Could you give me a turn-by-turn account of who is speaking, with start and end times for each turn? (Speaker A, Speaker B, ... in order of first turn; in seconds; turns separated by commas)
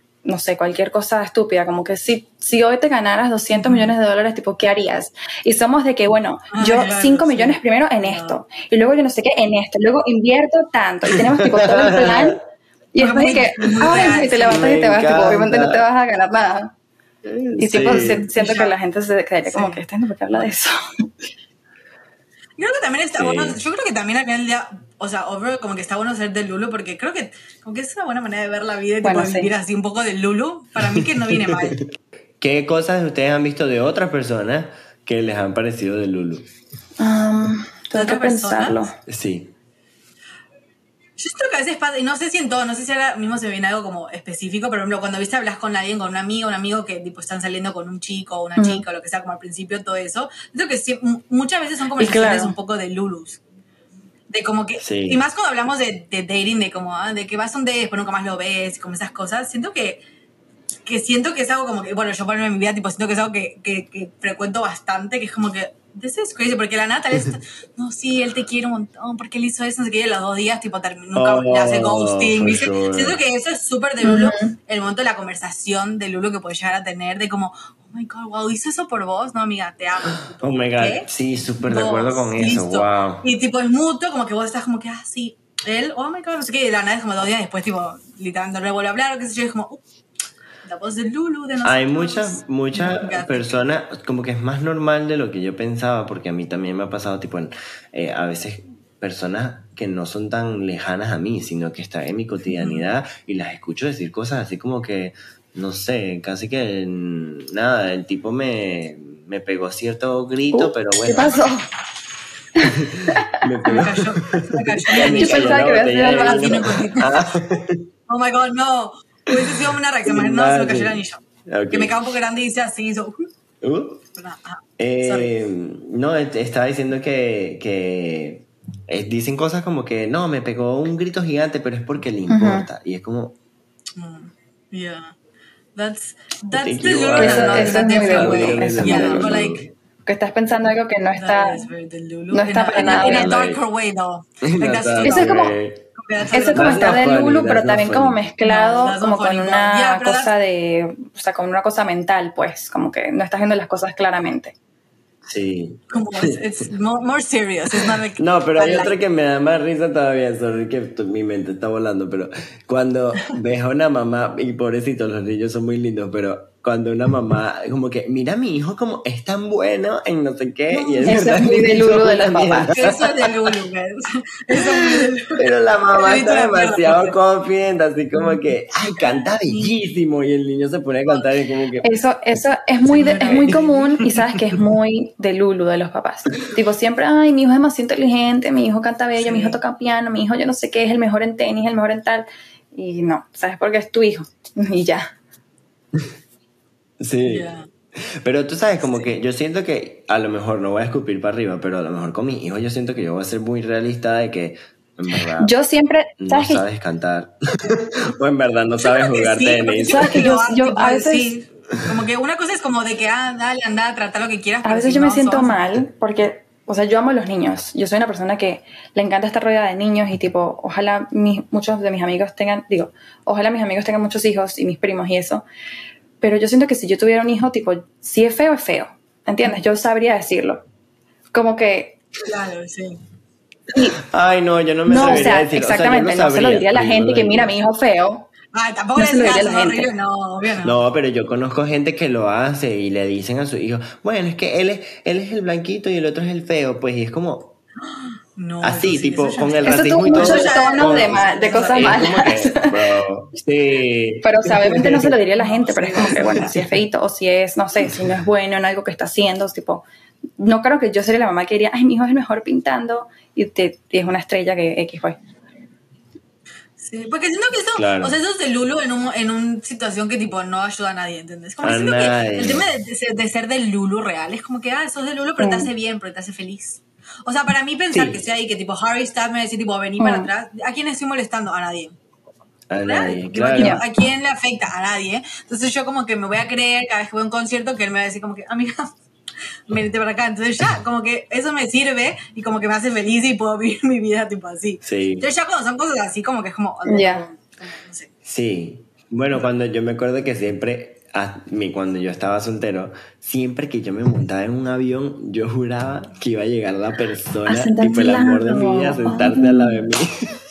Speaker A: 0.2-12.4, Speaker B: 3.5-3.9, Speaker B: 6.5-8.4, Speaker C: 11.1-12.4, Speaker A: 12.9-16.7, Speaker B: 13.0-14.6, Speaker C: 14.5-15.8, Speaker C: 17.2-18.3, Speaker A: 17.6-21.1, Speaker B: 17.8-18.7, Speaker B: 19.5-19.8, Speaker B: 22.6-31.8, Speaker C: 23.1-23.6, Speaker A: 29.0-29.5, Speaker C: 30.8-31.9, Speaker C: 32.4-36.5, Speaker A: 37.0-39.0, Speaker B: 37.9-38.8, Speaker C: 39.1-39.5, Speaker B: 41.2-53.4, Speaker A: 48.6-48.9, Speaker A: 52.0-52.5, Speaker B: 54.3-60.0, Speaker C: 54.8-55.2, Speaker B: 60.9-81.1, Speaker C: 71.2-73.2, Speaker A: 74.0-74.5, Speaker C: 80.4-83.3, Speaker B: 81.7-89.8, Speaker B: 90.6-93.6, Speaker C: 91.6-111.4, Speaker B: 102.6-102.9, Speaker A: 110.5-111.7, Speaker A: 112.6-113.9, Speaker C: 112.7-117.9, Speaker B: 113.7-117.3, Speaker A: 115.0-116.7, Speaker B: 118.1-123.3, Speaker C: 119.3-122.0, Speaker C: 123.6-124.0, Speaker B: 124.2-125.3, Speaker C: 124.8-133.4, Speaker A: 132.3-132.7, Speaker B: 134.0-135.2, Speaker B: 135.8-139.7, Speaker C: 136.5-139.7, Speaker A: 137.2-139.3, Speaker A: 140.1-141.7, Speaker B: 141.2-147.0, Speaker A: 142.3-143.3, Speaker C: 142.8-143.6, Speaker C: 144.4-145.8, Speaker A: 145.0-145.5, Speaker A: 146.3-154.6, Speaker C: 146.5-148.2, Speaker B: 148.4-150.3, Speaker C: 155.3-156.4, Speaker B: 155.9-158.9, Speaker C: 157.8-173.6, Speaker B: 170.7-171.4, Speaker A: 171.1-172.8, Speaker B: 172.7-177.2, Speaker C: 174.6-181.9, Speaker B: 179.1-179.7, Speaker A: 181.8-195.1, Speaker B: 182.9-184.6, Speaker B: 189.2-189.6, Speaker C: 197.0-205.5, Speaker B: 197.2-197.7, Speaker A: 205.4-206.7, Speaker C: 206.2-210.3, Speaker B: 208.8-215.7, Speaker A: 209.9-211.3, Speaker A: 214.6-225.5, Speaker A: 226.2-230.6, Speaker A: 231.3-232.0, Speaker B: 232.3-233.0, Speaker C: 234.0-237.6, Speaker A: 234.9-238.3, Speaker B: 238.5-240.8, Speaker A: 239.0-239.9, Speaker C: 240.6-247.6, Speaker B: 247.8-252.2, Speaker C: 248.6-255.1, Speaker A: 249.6-252.7, Speaker A: 254.2-259.9, Speaker B: 255.4-256.5, Speaker C: 256.0-256.7, Speaker A: 260.4-265.2, Speaker B: 266.8-281.9, Speaker C: 267.8-268.1, Speaker C: 271.6-272.7, Speaker A: 275.4-275.7, Speaker C: 277.9-278.2, Speaker A: 280.0-280.3, Speaker C: 282.7-283.8, Speaker B: 282.8-288.9, Speaker A: 283.6-283.8, Speaker B: 289.7-298.1, Speaker C: 294.8-295.3, Speaker A: 296.9-297.2, Speaker C: 298.2-310.3, Speaker A: 307.5-309.9